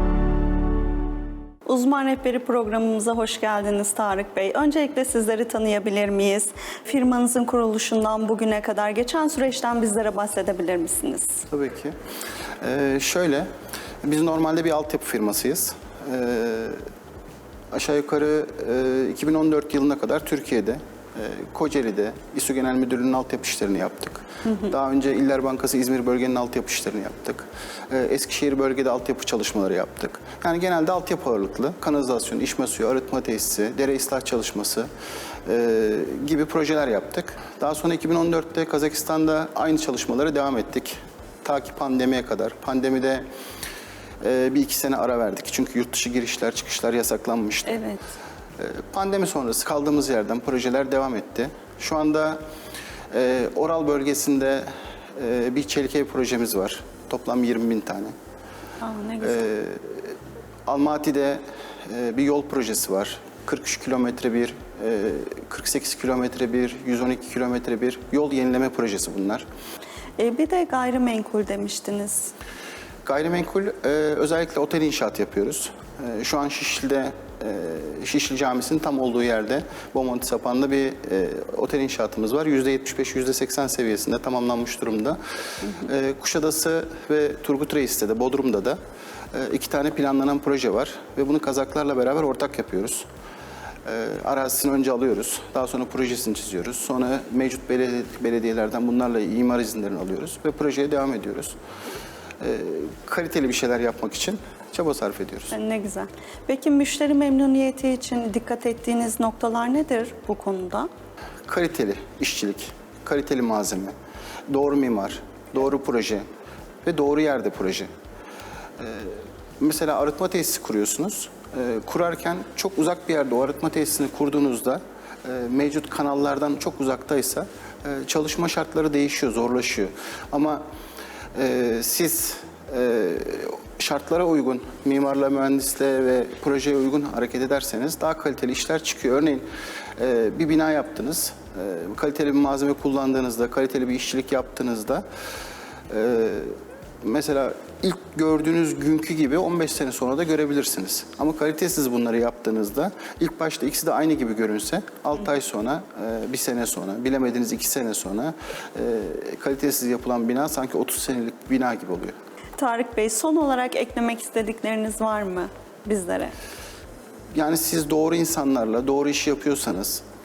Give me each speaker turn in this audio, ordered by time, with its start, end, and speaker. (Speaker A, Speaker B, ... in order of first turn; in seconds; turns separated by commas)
Speaker A: 1.7-11.4, Speaker B: 11.5-11.9, Speaker B: 12.6-13.5, Speaker B: 14.0-16.8, Speaker B: 17.7-34.9, Speaker B: 35.5-43.2, Speaker B: 44.2-47.8, Speaker B: 48.6-52.4, Speaker B: 53.1-58.1, Speaker A: 58.8-59.4, Speaker B: 59.2-60.1, Speaker B: 60.6-69.5, Speaker A: 70.2-72.3, Speaker B: 73.0-85.2, Speaker B: 85.8-88.8, Speaker B: 89.3-93.1, Speaker B: 93.8-101.6, Speaker B: 102.4-105.5, Speaker A: 105.5-110.9, Speaker B: 111.5-113.9, Speaker B: 114.5-116.2, Speaker B: 116.8-117.9, Speaker B: 118.8-130.6, Speaker B: 131.3-145.1, Speaker B: 145.9-162.1, Speaker A: 162.6-166.3, Speaker B: 167.3-170.0